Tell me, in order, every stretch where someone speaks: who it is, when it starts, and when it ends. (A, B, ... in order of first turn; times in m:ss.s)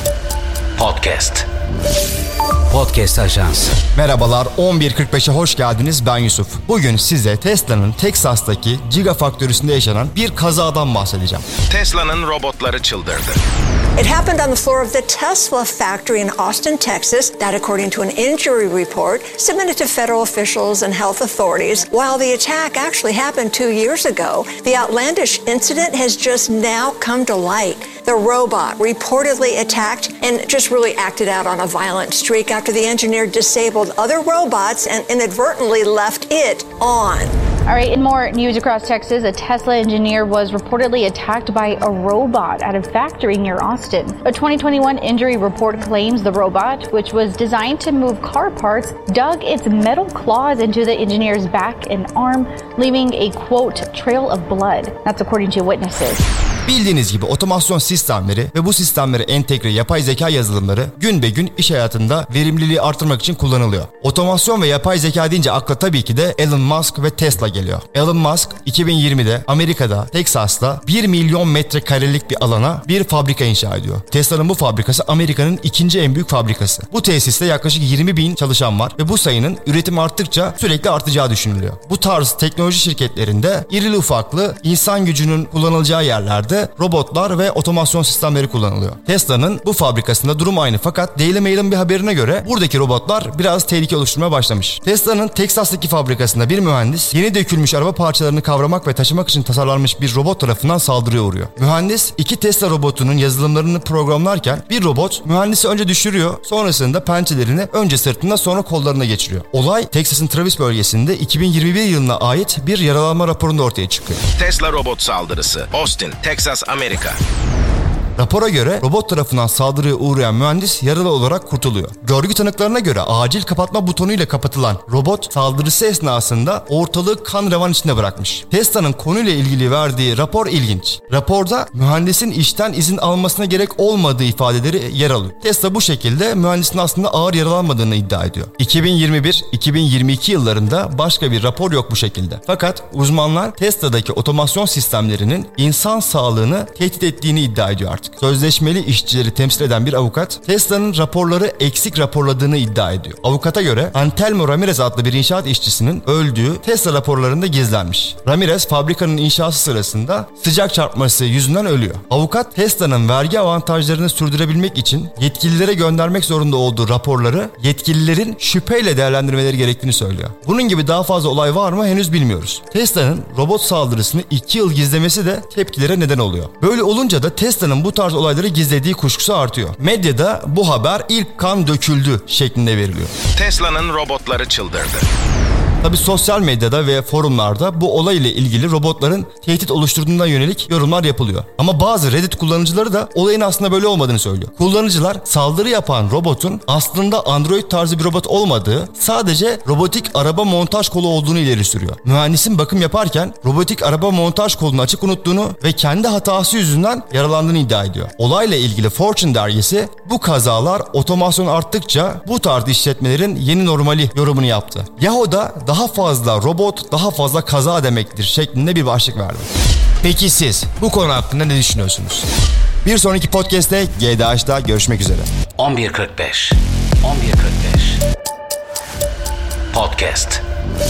0:00.8-0:01.5 A
0:02.7-0:03.8 A
0:03.9-0:11.4 B
0:11.7-0:13.4 C
0:14.0-0:37.3 D
0:37.7-0:56.2 E
0:56.6-1:54.2 B
1:54.4-1:57.2 C
1:58.2-3:03.1 B
3:03.4-3:05.1 C
3:05.8-3:39.5 B
3:40.0-3:42.3 B
3:42.8-3:45.3 B
3:45.6-3:48.0 A
3:49.7-3:50.4 A